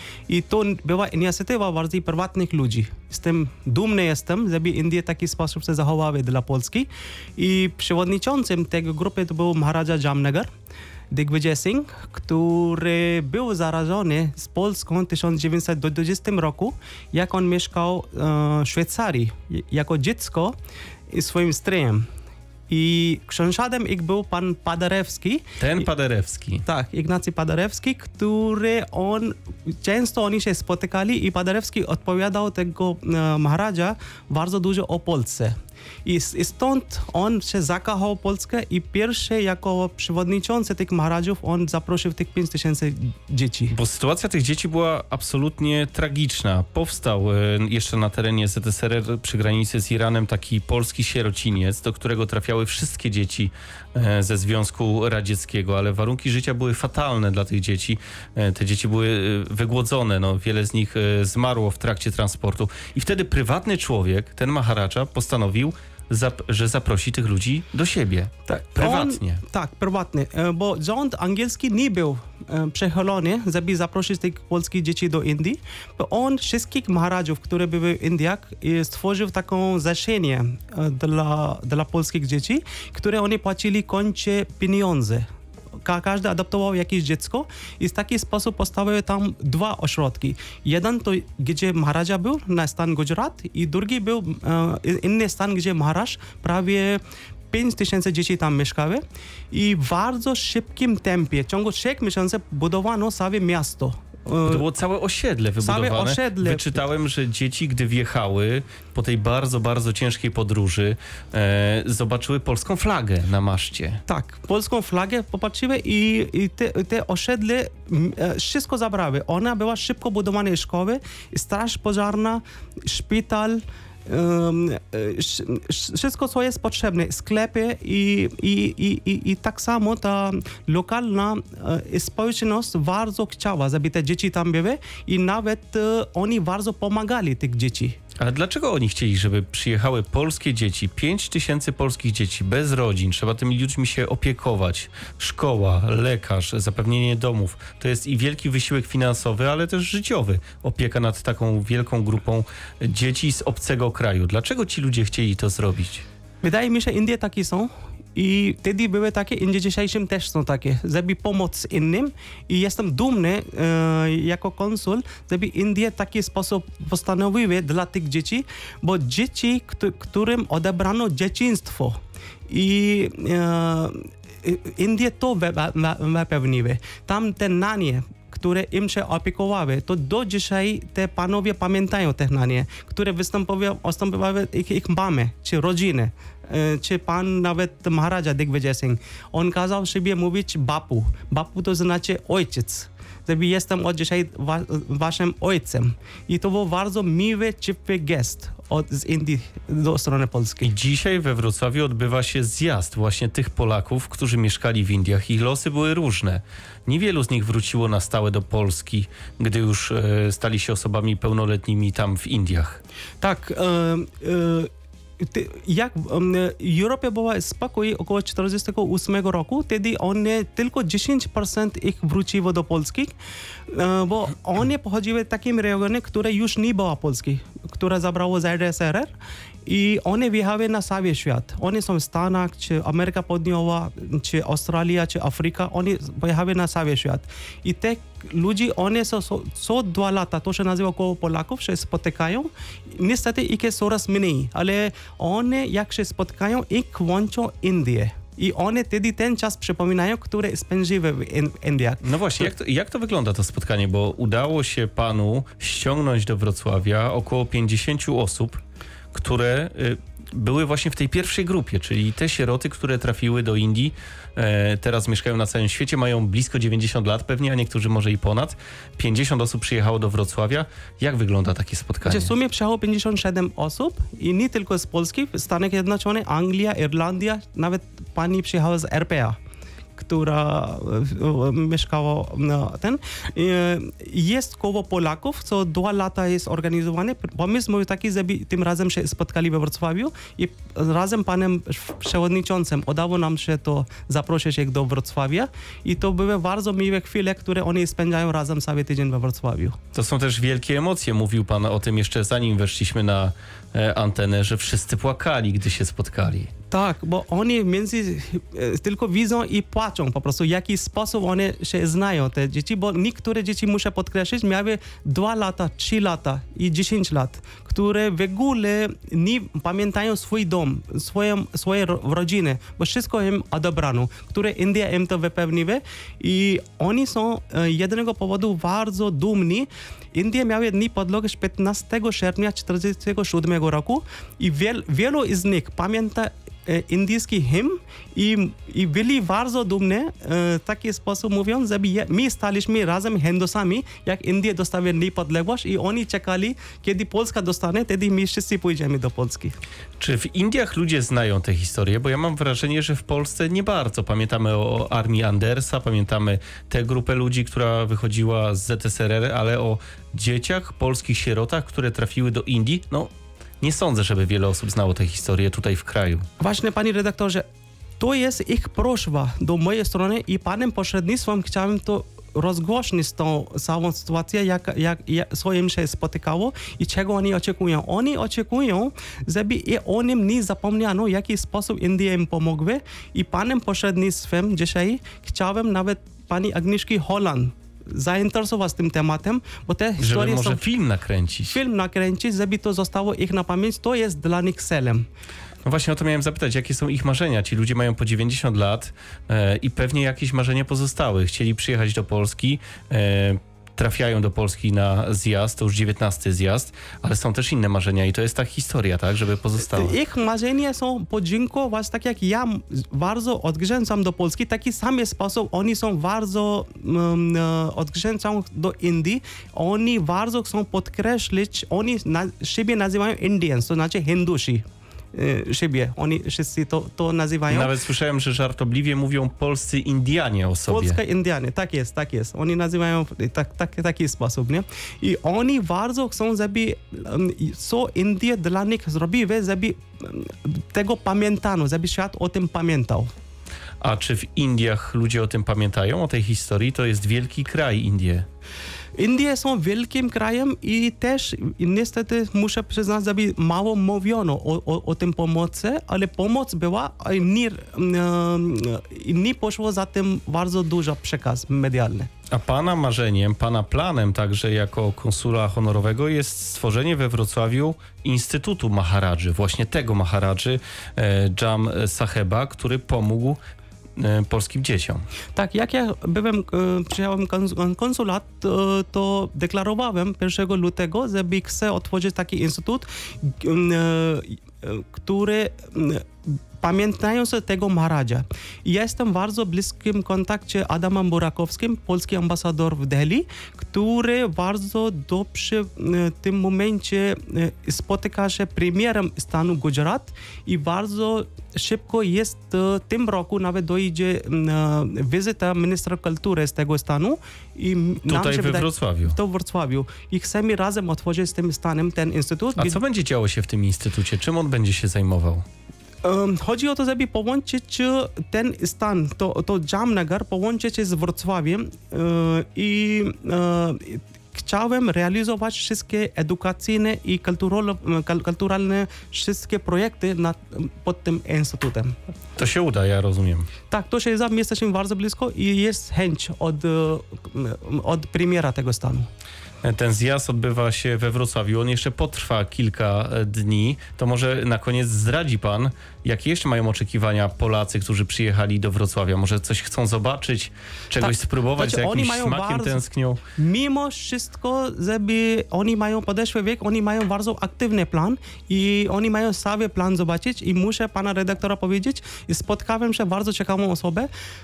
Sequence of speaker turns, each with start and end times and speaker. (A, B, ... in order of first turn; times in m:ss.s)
0:00.3-0:10.5 A
0:11.1-0:20.6 A
0:21.1-0:22.0 A
0:22.7-0:25.4 A
0:25.6-0:26.6 B
0:26.7-0:43.7 A
0:43.7-1:09.4 B
1:08.5-1:25.3 A
1:25.8-1:37.0 A
1:37.5-1:44.7 A
1:44.5-1:54.0 B
1:45.6-1:46.8 A
1:54.1-2:18.0 A
2:18.2-2:36.0 B
2:36.4-3:20.7 A
3:20.6-3:32.8 B
3:33.2-3:43.1 A
3:43.7-3:49.1 A
3:49.7-4:12.5 A
4:12.0-4:18.6 B
4:19.1-4:32.3 B
4:32.0-4:39.4 A
4:40.0-4:59.8 A
4:59.9-5:06.5 B
5:06.7-5:49.6 A
5:50.0-6:06.3 B
6:06.4-6:07.4 A
6:08.0-6:30.6 A
6:30.0-6:31.6 B
6:31.5-6:35.1 A
6:35.6-6:50.0 B
6:49.6-7:07.7 A
7:07.5-7:11.0 B
7:10.7-7:23.1 A
7:23.8-7:28.3 B
7:29.0-7:42.1 A
7:42.3-7:53.4 B
7:54.0-7:55.0 B
7:55.4-8:32.8 A
8:28.1-8:29.2 B
8:32.6-8:35.4 B
8:36.0-8:52.0 A
8:52.4-8:53.5 B
8:53.7-8:59.1 A
8:59.6-9:13.2 B
9:11.0-9:12.8 A
9:13.4-9:24.1 A